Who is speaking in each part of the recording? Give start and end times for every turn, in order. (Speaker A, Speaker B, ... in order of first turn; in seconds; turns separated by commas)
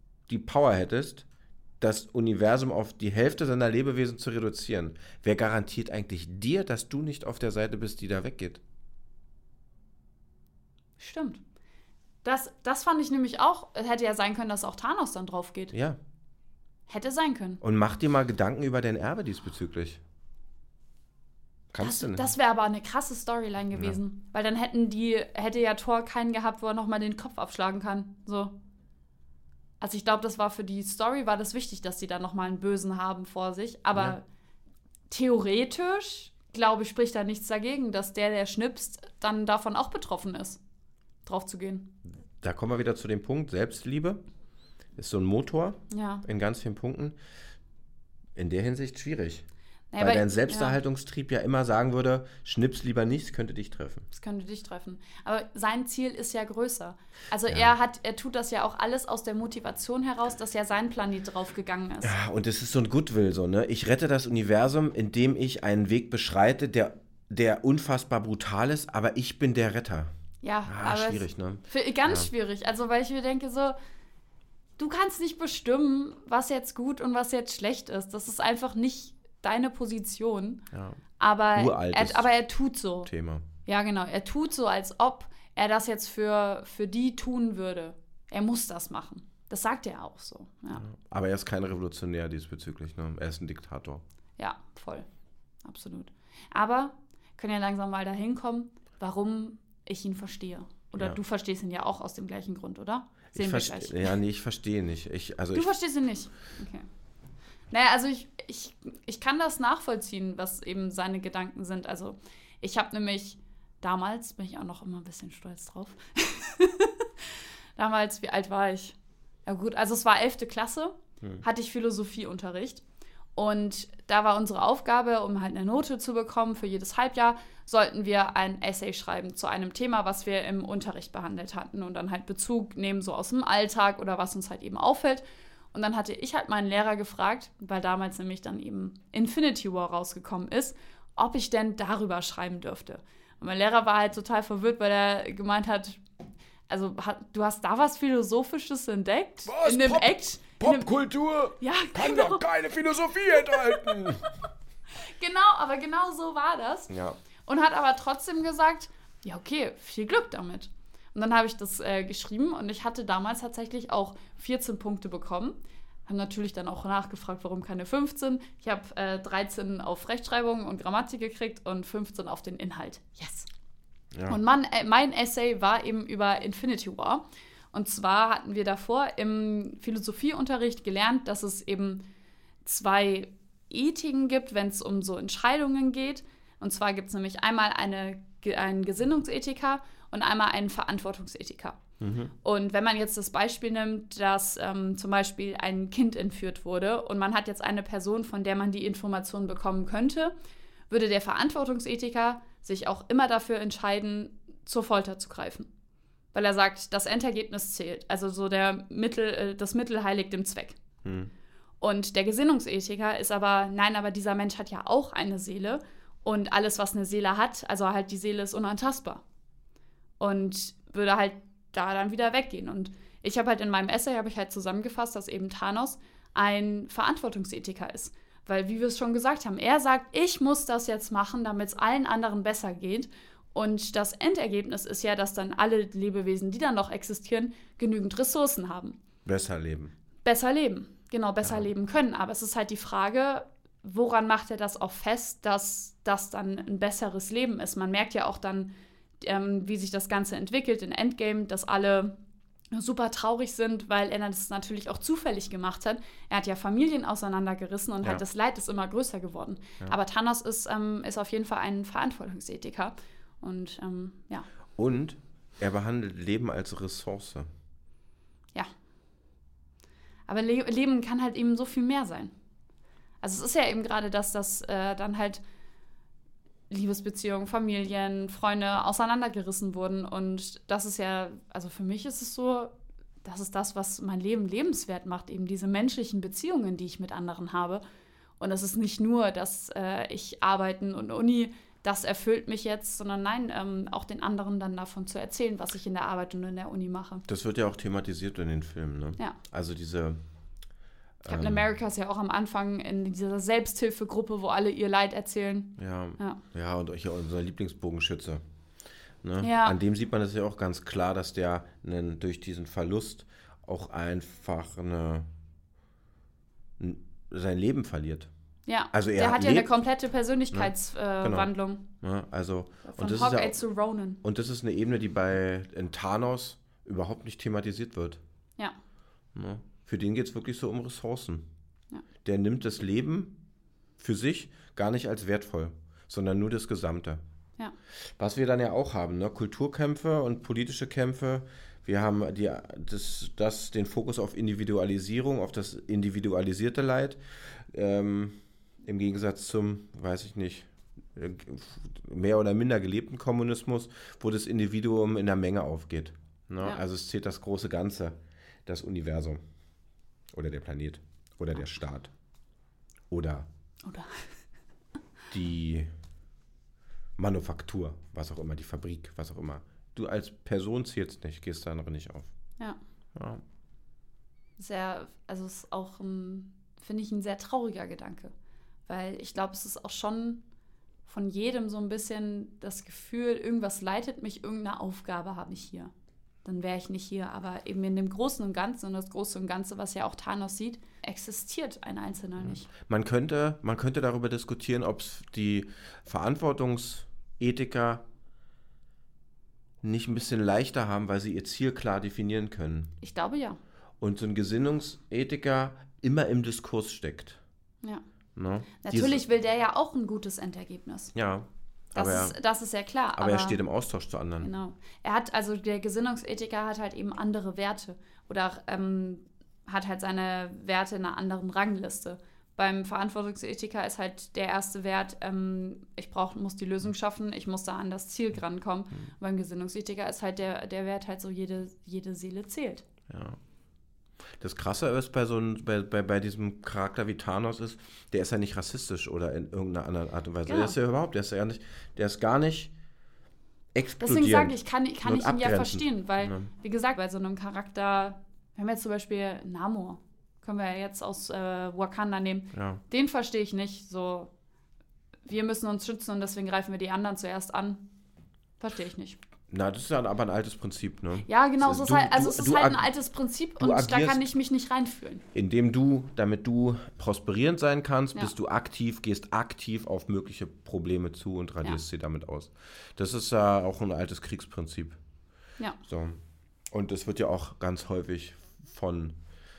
Speaker A: 0.3-1.2, Speaker A: 1.8-8.6, Speaker B: 11.0-11.4, Speaker B: 12.2-15.7, Speaker B: 16.9-17.6, Speaker A: 17.6-20.0, Speaker A: 21.7-22.3, Speaker B: 21.8-28.5, Speaker A: 23.7-24.0, Speaker B: 29.8-34.2, Speaker B: 35.1-40.6, Speaker B: 41.2-41.9, Speaker A: 42.4-44.2, Speaker A: 45.0-47.1, Speaker B: 45.9-46.2, Speaker A: 48.4-49.4, Speaker B: 49.9-50.8, Speaker A: 50.0-54.1, Speaker B: 54.1-62.1, Speaker A: 57.5-57.7, Speaker A: 62.0-70.1, Speaker B: 70.4-73.7, Speaker A: 70.7-72.3, Speaker B: 74.8-80.6, Speaker A: 80.7-81.0, Speaker B: 81.2-83.1, Speaker A: 81.5-82.3, Speaker A: 83.0-83.4, Speaker B: 83.6-90.8, Speaker A: 90.8-94.0, Speaker B: 94.4-95.1, Speaker B: 95.6-104.1, Speaker A: 103.3-105.7, Speaker B: 105.5-106.8, Speaker B: 107.7-122.8, Speaker B: 123.3-146.0, Speaker B: 146.7-150.9, Speaker A: 149.4-154.2, Speaker B: 151.6-152.5, Speaker B: 153.3-153.6, Speaker B: 155.0-156.9, Speaker A: 156.9-157.2, Speaker B: 157.4-173.5, Speaker A: 174.1-174.4, Speaker B: 174.3-182.0, Speaker B: 182.6-191.8, Speaker A: 192.0-192.3, Speaker B: 192.4-200.3, Speaker B: 200.9-205.7, Speaker B: 206.3-210.8, Speaker A: 211.0-211.3, Speaker B: 211.8-219.2, Speaker B: 220.2-239.0, Speaker A: 239.2-239.9, Speaker B: 240.2-252.2, Speaker A: 241.4-241.7, Speaker B: 252.7-264.5, Speaker A: 264.8-267.5, Speaker B: 270.3-272.3, Speaker B: 273.2-275.4, Speaker B: 276.7-287.8, Speaker B: 288.4-297.2, Speaker A: 297.3-300.2, Speaker A: 301.2-301.6, Speaker B: 301.3-306.4, Speaker A: 305.8-308.4, Speaker A: 309.2-315.3, Speaker B: 309.4-309.8, Speaker A: 316.8-318.3, Speaker B: 318.6-321.8, Speaker A: 318.9-319.7, Speaker A: 320.5-321.5, Speaker A: 322.0-323.6, Speaker B: 322.9-324.2, Speaker A: 324.2-328.2, Speaker A: 329.3-331.4, Speaker A: 332.2-333.3, Speaker A: 334.0-337.2, Speaker A: 338.2-359.4, Speaker A: 360.3-362.1, Speaker A: 363.1-363.5, Speaker B: 363.8-364.3, Speaker A: 365.3-365.9, Speaker A: 367.2-372.3, Speaker A: 373.1-373.4, Speaker B: 374.6-378.3, Speaker B: 378.9-380.4, Speaker B: 381.1-385.9, Speaker B: 386.4-392.7, Speaker A: 392.8-398.0, Speaker A: 399.8-402.9, Speaker B: 403.0-403.6, Speaker A: 404.0-407.4, Speaker A: 408.4-409.2, Speaker B: 408.8-411.1, Speaker A: 411.1-412.4, Speaker B: 411.9-413.6, Speaker A: 413.1-414.5, Speaker B: 414.4-432.8, Speaker A: 433.1-433.4, Speaker A: 434.4-442.7, Speaker B: 440.4-440.8, Speaker A: 443.7-446.5, Speaker B: 444.0-454.3, Speaker A: 452.5-452.8, Speaker B: 455.2-457.8, Speaker B: 458.6-459.2, Speaker A: 459.5-462.8, Speaker B: 461.2-465.2, Speaker A: 463.6-464.3, Speaker A: 465.3-475.0, Speaker A: 475.9-476.2, Speaker A: 476.7-479.1